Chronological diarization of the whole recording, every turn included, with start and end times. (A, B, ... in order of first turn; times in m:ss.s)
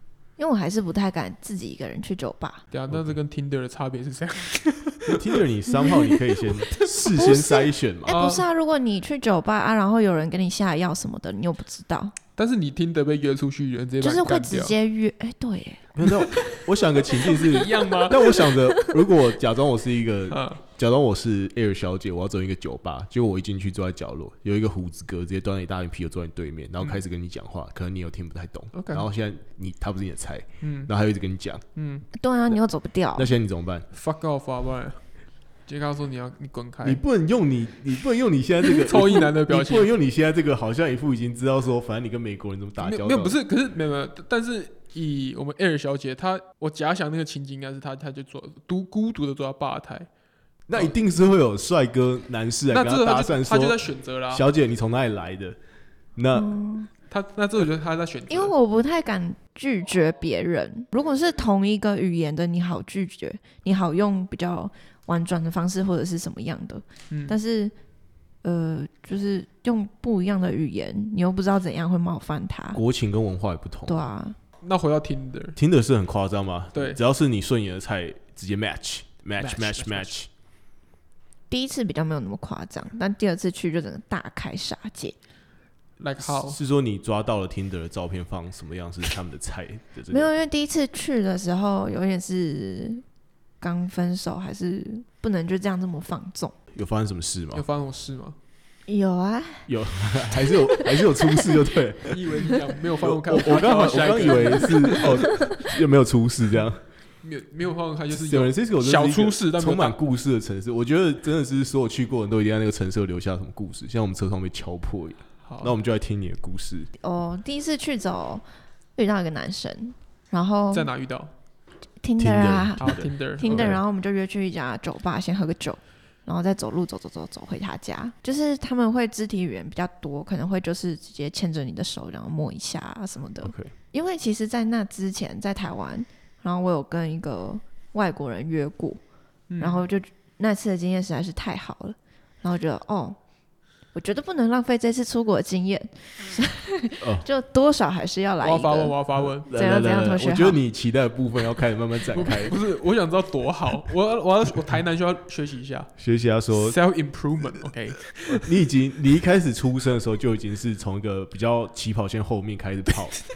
0:00.4-0:02.6 A
0:02.7-0:05.2 B
0:02.9-0:03.2 C
0:05.1-0:08.2 C
0:07.0-0:12.2 A
0:08.1-0:08.5 B
0:12.4-0:14.8 B
0:14.0-0:16.0 A
0:16.0-0:31.6 C
0:16.1-0:16.6 B
0:17.2-0:18.5 B
0:18.5-0:19.0 A
0:20.3-0:20.6 B
0:28.7-0:29.1 B
0:30.6-0:30.9 B
0:31.8-0:32.1 B
0:32.2-0:33.3 A
0:33.2-0:33.9 C
0:33.9-0:35.0 B
0:35.7-0:37.0 B
0:36.8-0:43.4 C
0:38.6-0:39.9 B
0:42.8-0:50.1 B
0:50.7-0:53.8 C
0:52.7-0:54.4 B
0:54.3-0:55.6 C
0:56.2-0:56.5 C
0:56.3-0:56.9 A
0:57.1-0:58.5 B
0:58.3-1:07.7 A
1:07.1-1:07.4 B
1:08.4-1:12.8 A
1:12.7-1:14.1 C
1:13.9-1:14.4 A
1:14.6-1:15.6 B
1:15.6-1:20.3 C
1:16.7-1:17.0 B
1:19.4-1:20.2 B
1:21.5-1:25.2 A
1:26.0-1:26.6 B
1:26.2-1:30.3 C
1:30.1-1:33.0 A
1:33.6-1:36.6 A
1:36.7-1:37.6 C
1:37.5-1:38.4 B
1:38.9-1:39.7 A
1:39.7-1:42.5 C
1:40.4-1:41.6 A
1:42.1-1:45.4 B
1:43.0-1:46.8 C
1:47.2-1:50.0 B
1:48.1-1:56.9 C
1:55.4-1:55.8 B
1:57.0-1:58.4 A
1:59.0-2:00.9 A
2:00.7-2:01.3 B
2:02.0-2:19.0 A
2:02.2-2:03.8 C
2:02.8-2:03.8 B
2:13.4-2:13.7 C
2:19.5-2:19.8 B
2:19.6-2:23.2 A
2:23.9-2:29.0 A
2:27.0-2:27.3 C
2:28.4-2:29.5 B
2:29.4-2:32.6 C
2:29.5-2:30.6 A
2:32.1-2:35.9 B
2:36.0-2:36.8 C
2:36.5-2:38.5 B
2:38.3-2:43.2 C